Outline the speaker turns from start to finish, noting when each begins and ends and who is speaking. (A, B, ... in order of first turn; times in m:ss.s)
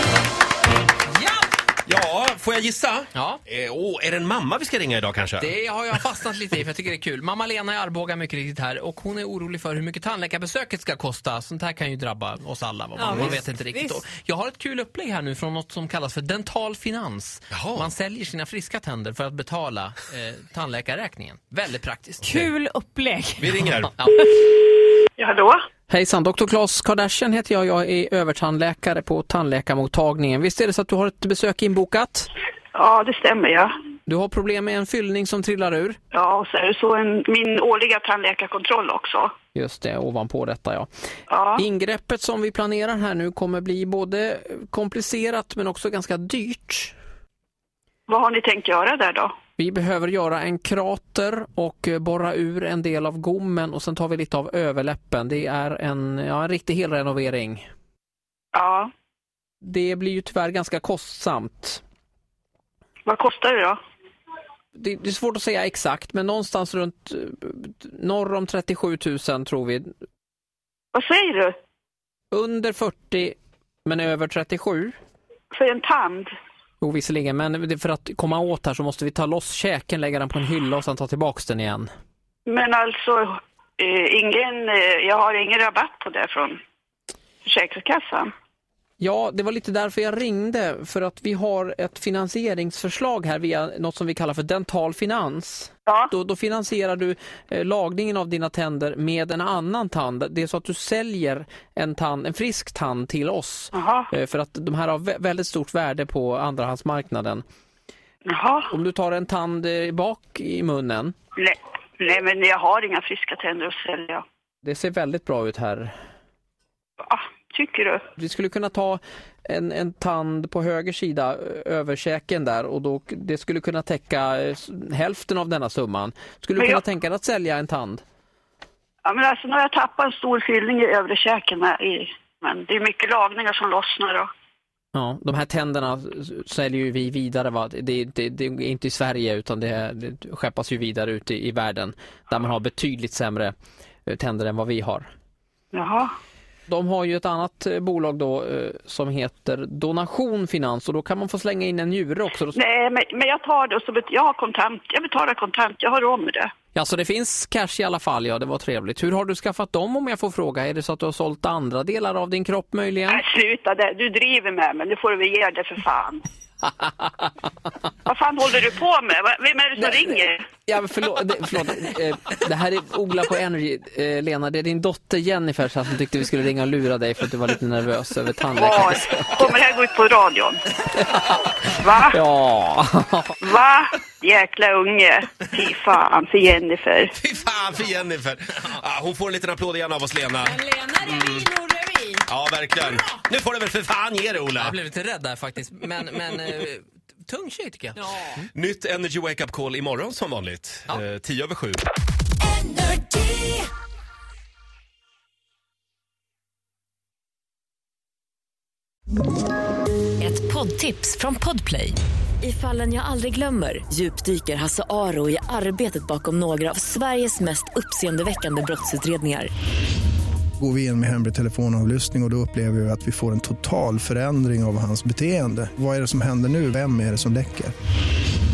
0:01.1-0:01.5 A
0:01.9-0:05.5 B
0:03.1-0:03.4 A
0:05.4-0:22.6 A
0:13.0-0:14.0 C
0:17.5-0:17.9 B
0:22.2-0:23.6 C
0:23.4-0:23.9 B
0:24.0-0:24.3 A
0:25.2-0:25.6 D
0:25.9-0:32.3 A
0:32.7-0:33.7 D
0:34.1-0:36.0 A
0:36.1-0:39.3 D
0:39.6-0:40.9 A
0:41.3-0:41.6 D
0:41.6-0:46.9 A
0:48.1-0:49.3 D
0:49.6-0:57.7 A
0:58.5-0:58.9 D
0:59.6-1:01.8 A
1:03.1-1:03.8 D
1:04.8-1:09.9 A
1:10.9-1:11.5 D
1:12.3-1:15.0 A
1:15.5-1:16.3 D
1:16.8-1:21.9 A
1:22.5-1:26.6 D
1:27.4-1:28.3 D
1:29.0-1:47.4 A
1:43.7-1:44.1 D
1:48.3-1:48.7 D
1:48.7-1:51.2 A
1:51.4-1:54.2 D
1:54.6-1:55.9 A
1:57.0-1:58.0 D
1:58.2-2:08.0 A
2:06.6-2:06.8 D
2:09.0-2:14.3 D
2:15.0-2:23.5 A
2:24.1-2:25.1 A
2:25.7-2:26.1 D
2:26.7-2:32.6 A
2:32.6-2:36.5 D
2:36.8-2:43.2 A
2:43.1-2:46.2 D
2:46.7-2:47.3 A
2:48.1-2:50.4 D
2:50.6-2:59.3 A
2:58.6-3:00.6 D
3:00.9-3:01.6 A
3:01.8-3:02.2 D
3:02.1-3:03.3 A
3:03.4-3:07.1 D
3:07.2-3:11.5 B
3:10.5-3:12.2 C
3:12.2-3:14.8 B
3:14.6-3:18.4 A
3:18.5-3:21.8 B
3:22.6-3:23.6 E
3:30.2-3:39.5 E
3:40.6-3:47.7 F